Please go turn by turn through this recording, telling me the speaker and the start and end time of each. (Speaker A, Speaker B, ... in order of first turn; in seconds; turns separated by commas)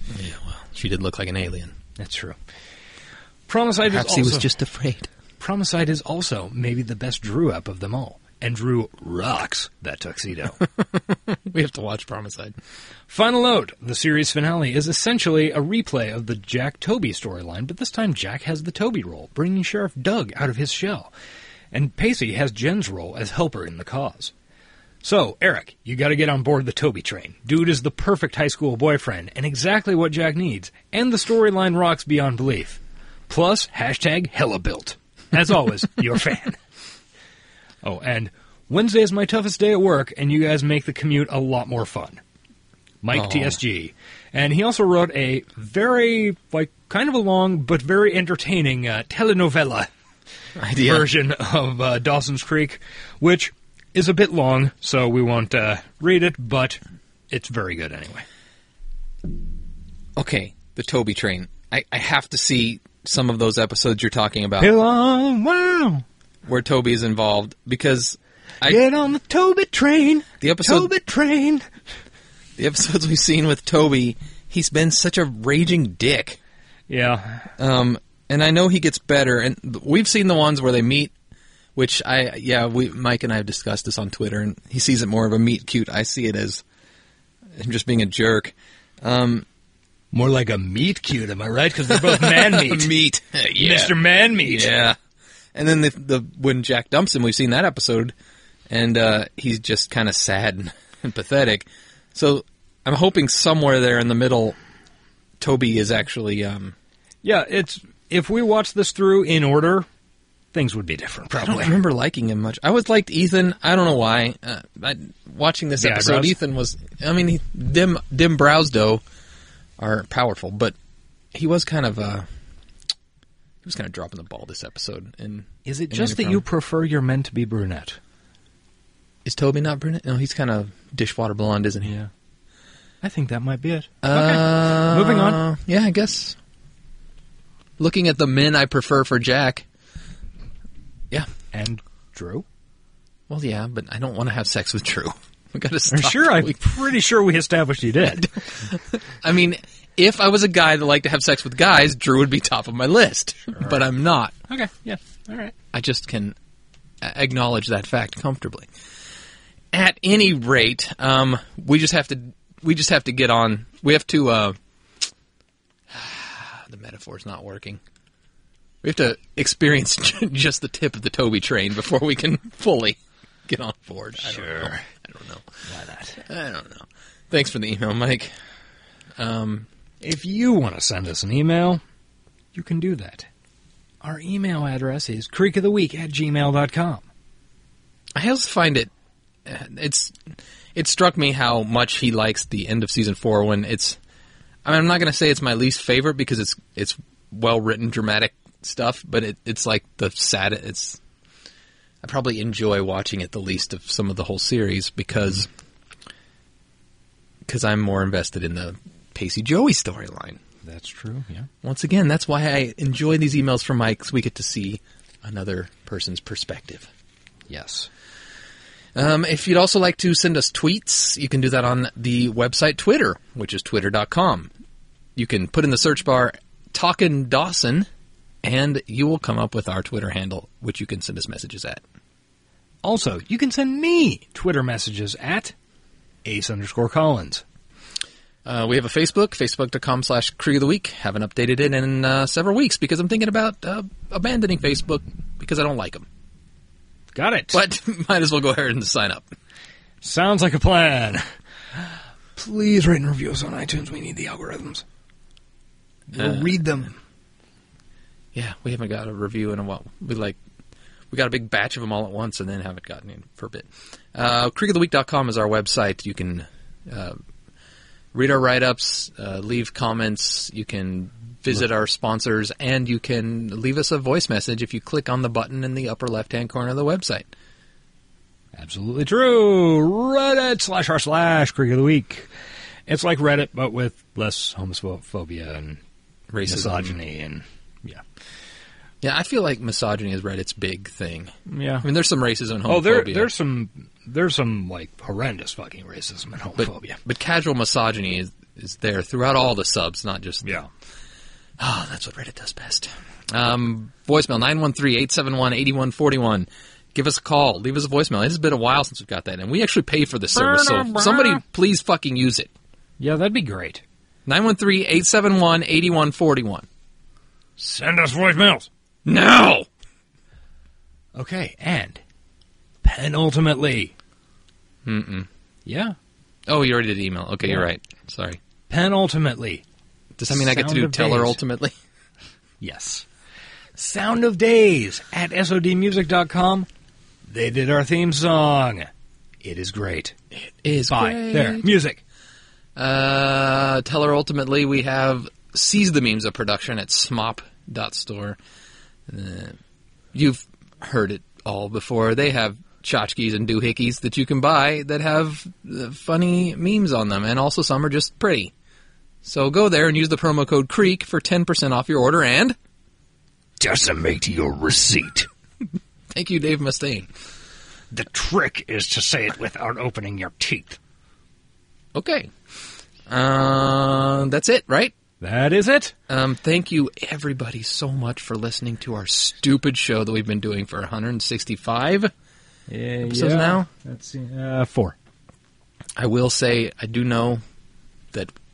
Speaker A: 0.1-1.7, Speaker B: 2.0-2.4, Speaker B: 3.5-4.5, Speaker A: 3.8-5.1, Speaker B: 5.4-10.6, Speaker A: 11.3-12.5, Speaker B: 13.1-21.1, Speaker B: 21.7-24.3, Speaker B: 25.0-36.6, Speaker B: 37.8-42.2, Speaker B: 43.0-49.9, Speaker A: 43.1-43.6, Speaker A: 50.6-51.1, Speaker B: 50.8-56.8, Speaker B: 57.3-58.2, Speaker A: 60.1-64.7, Speaker B: 64.6-66.0, Speaker A: 66.5-68.8, Speaker B: 68.6-71.7, Speaker A: 70.4-70.9, Speaker A: 72.6-76.4, Speaker B: 76.9-77.5, Speaker A: 77.6-81.1, Speaker A: 81.8-86.6, Speaker A: 87.6-89.4, Speaker B: 90.1-92.9, Speaker A: 91.9-95.0, Speaker B: 93.5-94.8, Speaker A: 95.5-98.1, Speaker A: 98.7-104.6, Speaker A: 105.4-106.7, Speaker B: 107.2-109.9, Speaker B: 110.5-111.8, Speaker A: 111.4-119.0, Speaker B: 115.8-116.3, Speaker A: 119.8-120.7, Speaker A: 121.3-122.3, Speaker A: 123.6-126.4, Speaker B: 125.6-128.0, Speaker A: 129.2-131.9, Speaker B: 131.8-132.1, Speaker B: 133.0-135.4, Speaker A: 134.0-136.4, Speaker A: 137.8-139.6, Speaker B: 141.5-142.4, Speaker A: 143.3-146.6, Speaker B: 145.9-148.3, Speaker A: 148.7-154.3, Speaker B: 153.5-153.8, Speaker B: 154.5-155.5, Speaker A: 155.7-156.3, Speaker A: 157.0-158.7, Speaker A: 159.7-164.6, Speaker A: 165.9-167.8, Speaker A: 168.8-175.4, Speaker B: 174.2-174.9, Speaker B: 175.7-176.2, Speaker A: 176.2-178.3, Speaker A: 179.2-179.7, Speaker B: 180.0-181.8, Speaker B: 182.5-183.3, Speaker B: 184.0-187.0, Speaker A: 188.1-188.9, Speaker A: 189.4-194.0, Speaker A: 194.6-201.0, Speaker A: 202.0-205.5, Speaker A: 207.5-210.4, Speaker B: 210.6-211.5, Speaker A: 211.6-216.9, Speaker B: 217.5-217.9, Speaker A: 218.9-224.5, Speaker A: 225.2-227.9, Speaker A: 228.4-231.8, Speaker B: 232.8-235.5, Speaker B: 236.2-237.4, Speaker A: 238.4-246.1, Speaker B: 247.1-247.6, Speaker A: 247.5-249.3, Speaker B: 250.0-251.2, Speaker B: 251.8-254.8, Speaker B: 256.1-256.9, Speaker A: 256.1-256.6, Speaker A: 258.3-260.4, Speaker A: 261.1-267.2, Speaker A: 268.1-277.3, Speaker B: 278.5-282.3, Speaker B: 282.9-285.8, Speaker A: 286.3-286.9, Speaker B: 286.4-288.0, Speaker A: 289.0-293.3, Speaker B: 291.5-291.9, Speaker B: 292.6-297.0, Speaker A: 296.6-300.6, Speaker A: 301.6-312.5, Speaker B: 310.3-311.4, Speaker B: 313.0-313.8, Speaker A: 314.2-316.6, Speaker B: 317.6-318.7, Speaker A: 319.1-319.7, Speaker B: 321.1-322.0, Speaker B: 322.8-323.9, Speaker A: 324.8-325.3, Speaker B: 325.6-325.9, Speaker A: 326.5-328.4, Speaker B: 328.7-329.6, Speaker A: 330.2-331.7, Speaker B: 330.3-331.4, Speaker B: 332.6-333.0, Speaker B: 333.8-336.7, Speaker B: 337.2-340.1, Speaker A: 340.4-341.6, Speaker B: 340.9-342.0, Speaker A: 342.8-348.4, Speaker A: 349.1-349.6, Speaker A: 350.1-358.5, Speaker A: 359.2-362.6, Speaker B: 363.6-365.3, Speaker A: 366.1-367.1, Speaker B: 367.9-370.8, Speaker A: 371.9-372.3, Speaker A: 373.1-374.9, Speaker B: 375.2-375.9, Speaker A: 376.1-382.1, Speaker B: 382.7-384.9, Speaker A: 383.1-383.6, Speaker A: 386.0-387.4